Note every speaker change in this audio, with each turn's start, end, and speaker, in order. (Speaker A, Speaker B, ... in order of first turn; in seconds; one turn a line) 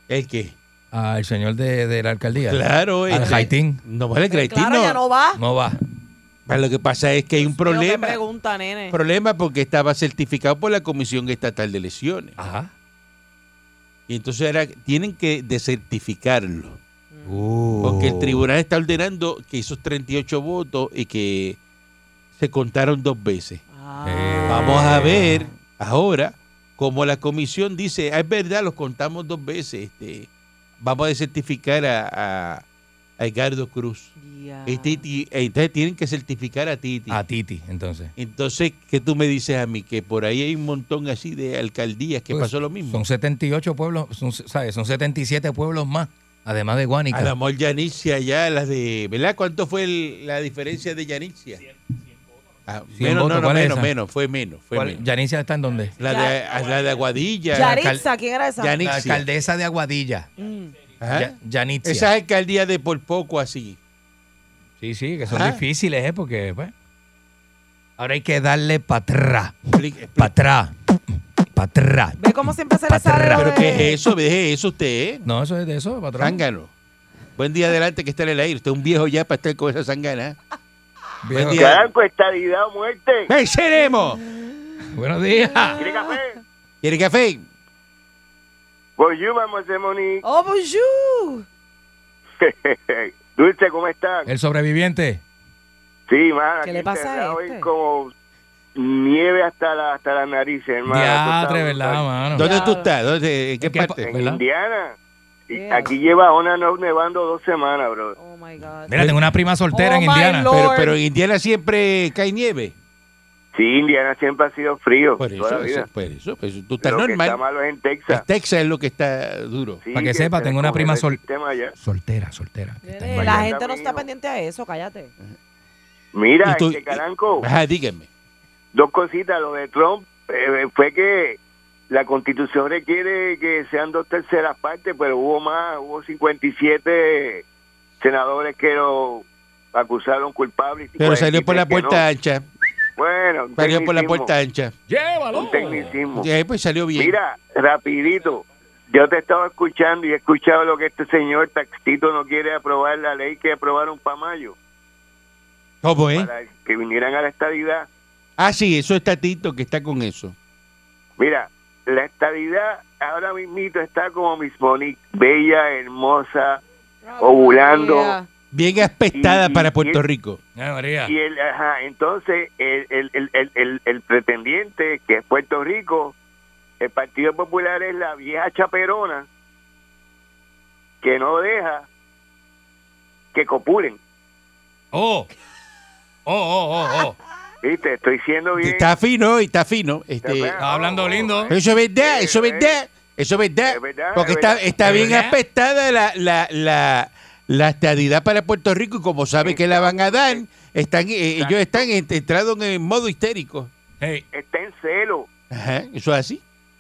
Speaker A: 0.1-0.5
Speaker B: 0.9-3.8
Speaker A: 2.4-5.0
Speaker C: 3.2-3.5
Speaker C: 4.3-5.4
Speaker B: 5.4-5.8
Speaker A: 6.5-8.2
Speaker C: 7.4-9.0
Speaker A: 8.9-12.4
Speaker B: 12.4-12.7
Speaker A: 14.1-16.8
Speaker C: 17.1-17.5
Speaker B: 17.3-18.4
Speaker A: 17.8-21.6
Speaker A: 22.4-23.6
Speaker C: 23.7-25.5
Speaker B: 24.1-25.4
Speaker A: 24.5-30.3
Speaker A: 30.8-32.6
Speaker A: 33.2-34.1
Speaker C: 34.2-35.0
Speaker A: 34.7-37.2
Speaker B: 37.1-38.1
Speaker A: 38.2-43.0
Speaker B: 42.3-47.3
Speaker A: 47.1-51.7
Speaker A: 52.7-55.0
Speaker B: 53.0-53.9
Speaker B: 54.7-56.0
Speaker A: 56.0-58.0
Speaker C: 56.0-56.4
Speaker C: 57.5-58.8
Speaker B: 57.5-58.0
Speaker A: 58.6-59.2
Speaker B: 58.8-60.3
Speaker C: 60.4-60.8
Speaker A: 61.0-63.8
Speaker B: 61.1-62.1
Speaker B: 64.8-66.7
Speaker A: 65.3-65.6
Speaker B: 68.0-70.7
Speaker A: 69.7-70.3
Speaker B: 71.5-72.2
Speaker C: 72.2-74.0
Speaker B: 72.9-73.9
Speaker A: 73.3-75.3
Speaker B: 75.2-76.4
Speaker A: 76.2-76.7
Speaker A: 77.4-80.4
Speaker B: 81.2-81.8
Speaker A: 81.3-81.8
Speaker D: 81.5-83.3
Speaker A: 83.3-84.2
Speaker C: 84.3-84.8
Speaker B: 84.9-85.9
Speaker C: 85.6-86.2
Speaker D: 85.8-86.4
Speaker A: 86.8-87.5
Speaker D: 89.0-90.2
Speaker C: 90.2-91.5
Speaker D: 92.4-94.3
Speaker B: 94.3-95.2
Speaker D: 96.1-98.1
Speaker C: 96.6-97.7
Speaker D: 98.8-102.1
Speaker B: 100.9-102.5
Speaker A: 102.3-104.1
Speaker C: 102.4-102.9
Speaker B: 103.6-104.4
Speaker D: 104.0-105.0
Speaker D: 105.5-108.2
Speaker C: 105.5-106.0
Speaker C: 108.2-109.1
Speaker B: 108.9-110.6
Speaker C: 109.7-111.0
Speaker A: 110.5-112.7
Speaker D: 113.5-115.9
Speaker A: 115.2-117.4
Speaker D: 116.8-118.3
Speaker A: 118.1-119.8
Speaker D: 119.8-121.7
Speaker B: 120.0-121.2
Speaker B: 121.8-123.5
Speaker C: 122.8-125.1
Speaker D: 123.2-124.1
Speaker D: 126.1-127.5
Speaker A: 126.4-128.1
Speaker D: 128.7-131.4
Speaker D: 131.9-137.4
Speaker D: 138.0-142.1
Speaker A: 141.0-142.4
Speaker D: 143.0-144.3
Speaker A: 143.6-144.7
Speaker B: 144.9-146.0
Speaker D: 145.3-146.3
Speaker A: 146.2-147.2
Speaker D: 147.0-154.6
Speaker A: 155.8-156.3
Speaker D: 156.1-157.9
Speaker A: 158.4-160.3
Speaker D: 161.2-166.6
Speaker C: 167.0-168.3
Speaker D: 167.2-168.2
Speaker A: 168.5-170.4
Speaker D: 169.1-170.0
Speaker B: 170.6-171.1
Speaker D: 171.1-176.2
Speaker D: 176.8-179.3
Speaker D: 181.0-181.9
Speaker D: 183.3-184.0
Speaker B: 184.9-185.3
Speaker B: 186.3-187.2
Speaker D: 187.6-188.9
Speaker A: 188.6-190.6
Speaker D: 190.2-192.8
Speaker B: 190.6-191.5
Speaker A: 191.5-203.7
Speaker D: 193.7-195.1
Speaker B: 194.8-195.4
Speaker D: 199.4-200.4
Speaker D: 201.4-201.9
Speaker D: 204.3-205.3
Speaker A: 205.5-206.4